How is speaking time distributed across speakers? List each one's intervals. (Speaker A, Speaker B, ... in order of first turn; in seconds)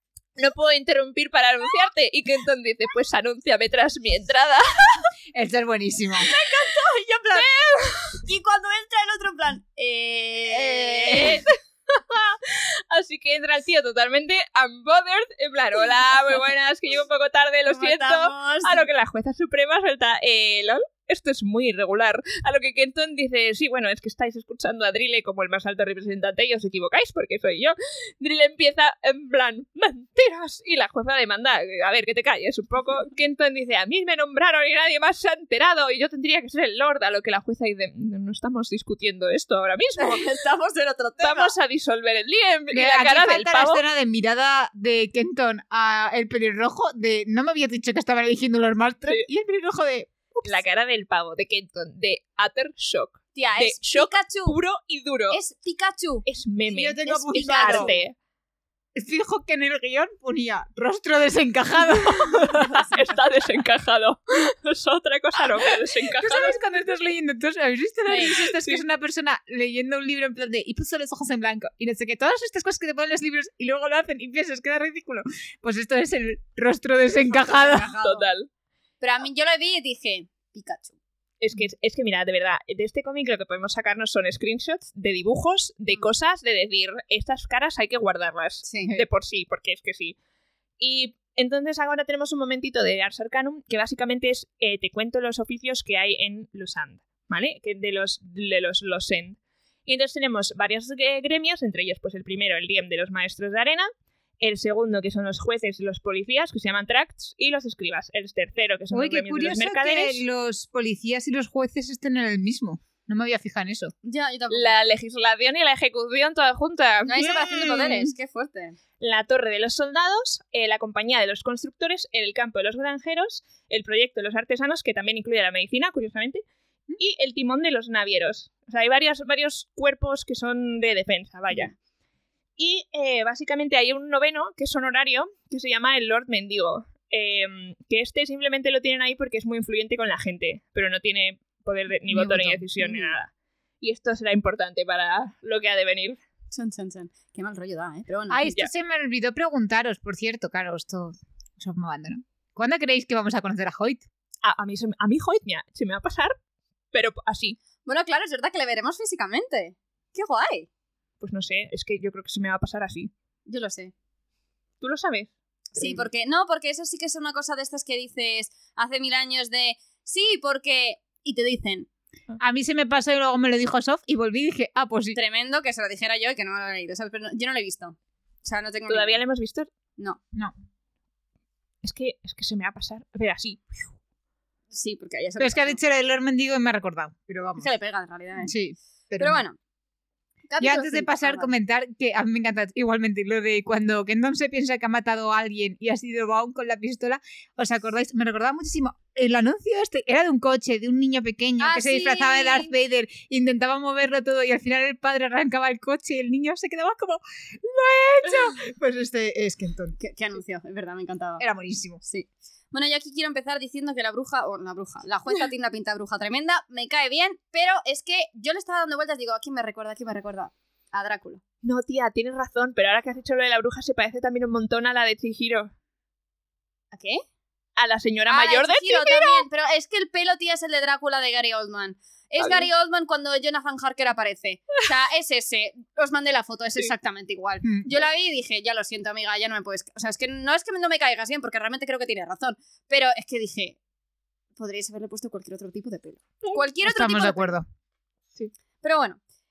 Speaker A: 0.4-5.0, 7.3-8.2, 10.5-40.3, 41.2-43.8, 50.5-55.4, 56.3-58.1, 62.3-66.6, 68.2-68.8, 78.0-78.5, 81.4-90.2, 90.8-110.2, 114.5-117.8, 119.0-126.4, 127.0-131.8, 132.6-143.3, 143.8-146.2, 154.4-156.4, 156.9-157.6, 161.2-163.1, 164.8-166.1, 178.9-179.7, 181.8-183.9, 221.6-225.7, 227.8-229.5, 232.4-232.7
Speaker B: 5.3-6.3, 42.7-50.6, 56.7-57.9, 59.0-62.9, 66.2-78.0, 108.9-113.9, 142.1-142.7, 148.3-154.1, 172.4-175.2, 185.4-187.7, 188.5-189.4, 190.6-210.0, 211.4-212.0, 237.6-237.9, 246.8-247.7
Speaker C: 6.2-7.5, 8.2-11.4, 17.7-18.9, 40.0-41.5, 53.4-54.6, 55.3-56.3, 57.0-58.0, 62.6-63.1, 77.2-78.3, 79.0-81.0, 88.7-89.0, 114.0-114.8, 117.1-118.8, 142.8-143.1, 146.5-148.5, 157.8-160.7, 163.5-163.9, 165.8-171.9, 175.1-179.2, 184.7-185.8, 187.6-188.5, 189.2-189.6, 190.5-191.5, 201.6-202.7, 210.0-211.4, 212.0-221.4, 226.9-227.2, 228.3-243.8, 244.6-247.5, 248.8-249.2